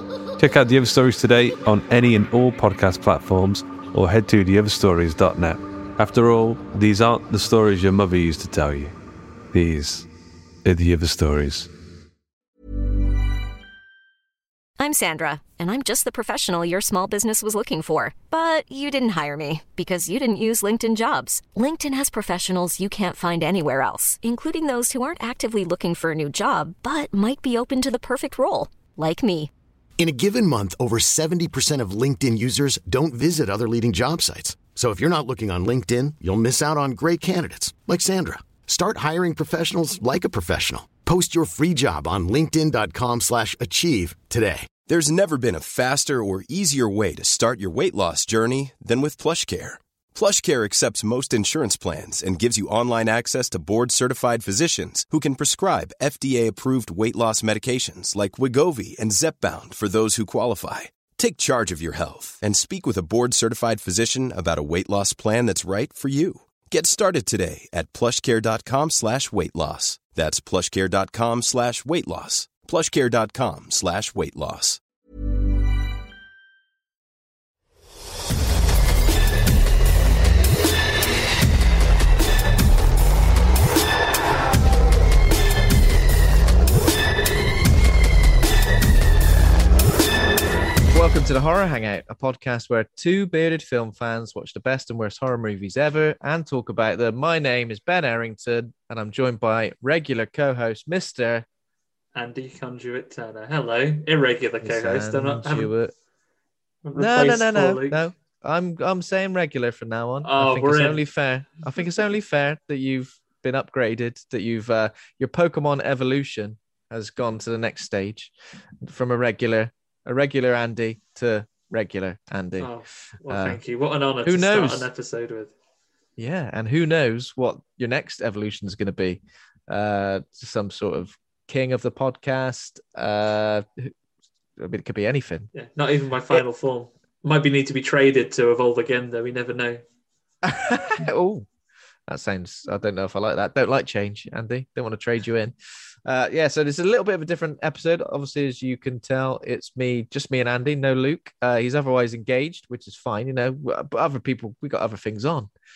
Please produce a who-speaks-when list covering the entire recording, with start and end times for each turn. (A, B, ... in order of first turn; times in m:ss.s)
0:00.4-0:08.9 A
0:09.5-0:10.1 A
0:10.6-0:11.7 A
0:14.8-0:29.5 B
0:30.0-0:44.7 C
0:44.8-1:14.8 D
1:30.8-1:41.4 E
1:42.1-1:45.7 F
1:44.6-1:45.9 E
1:46.8-1:48.0 F
1:47.0-2:02.7 E
1:50.2-1:51.0 F
2:02.6-2:05.5 F
2:03.3-2:03.6 E
2:04.2-2:04.9 E
2:06.2-2:13.9 E
2:14.6-2:15.5 E
2:15.5-2:19.8 F
2:20.4-2:21.5 E
2:22.1-2:35.5 E